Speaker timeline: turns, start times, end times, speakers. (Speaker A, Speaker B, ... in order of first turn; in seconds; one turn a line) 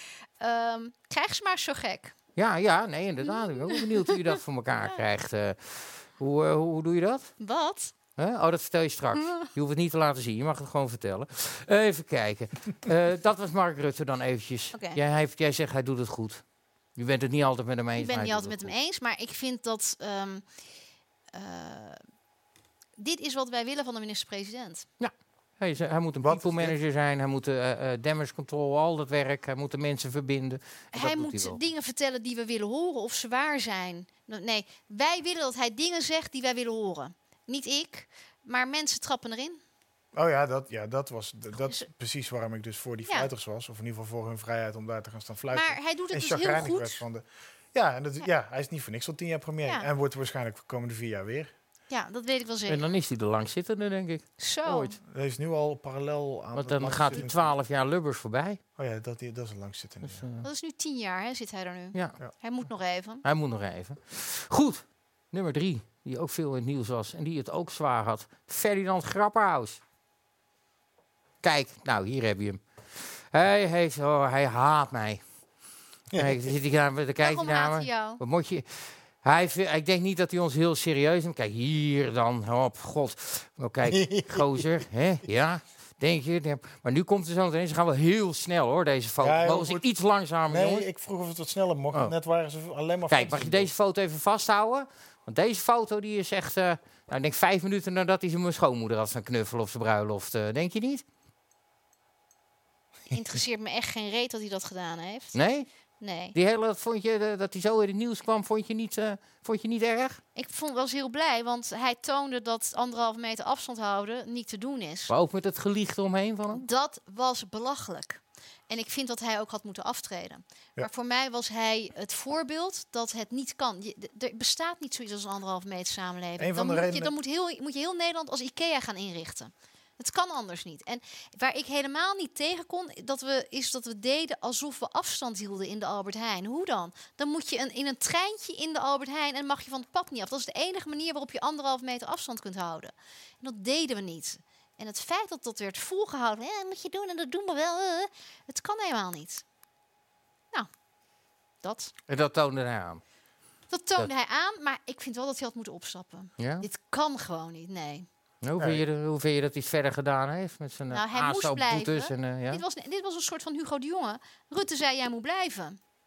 Speaker A: 0.4-2.1
Speaker B: 2.4-7.3
Speaker A: 3.3-4.2
Speaker A: 7.4-7.9
Speaker B: 8.2-16.4
Speaker A: 9.2-9.5
Speaker A: 14.7-15.0
Speaker B: 17.0-18.7
Speaker A: 18.0-20.4
Speaker A: 21.3-22.0
Speaker A: 23.0-24.9
Speaker B: 25.0-31.6
Speaker C: 26.2-26.8
Speaker A: 30.9-39.6
Speaker C: 40.1-51.5
Speaker A: 41.6-41.9
Speaker A: 45.5-47.0
Speaker A: 51.9-52.9
Speaker B: 52.7-55.0
Speaker A: 54.4-55.0
Speaker C: 55.1-57.5
Speaker B: 56.6-58.6
Speaker C: 58.8-60.2
Speaker B: 60.0-60.5
Speaker A: 60.4-63.2
Speaker B: 63.2-69.8
Speaker B: 71.4-75.2
Speaker C: 76.1-76.5
Speaker B: 76.2-90.9
Speaker A: 77.2-78.2
Speaker C: 83.8-84.7
Speaker C: 89.2-89.8
Speaker C: 90.5-93.7
Speaker B: 93.1-101.0
Speaker A: 103.1-105.4
Speaker B: 105.3-105.7
Speaker A: 106.0-106.3
Speaker B: 106.3-110.2
Speaker A: 110.3-115.1
Speaker B: 115.1-116.7
Speaker A: 116.5-149.4
Speaker C: 126.4-127.1
Speaker A: 151.6-151.9
Speaker B: 152.1-153.0
Speaker A: 153.7-158.1
Speaker B: 156.4-156.7
Speaker B: 158.4-162.6
Speaker C: 158.6-158.8
Speaker A: 160.9-165.8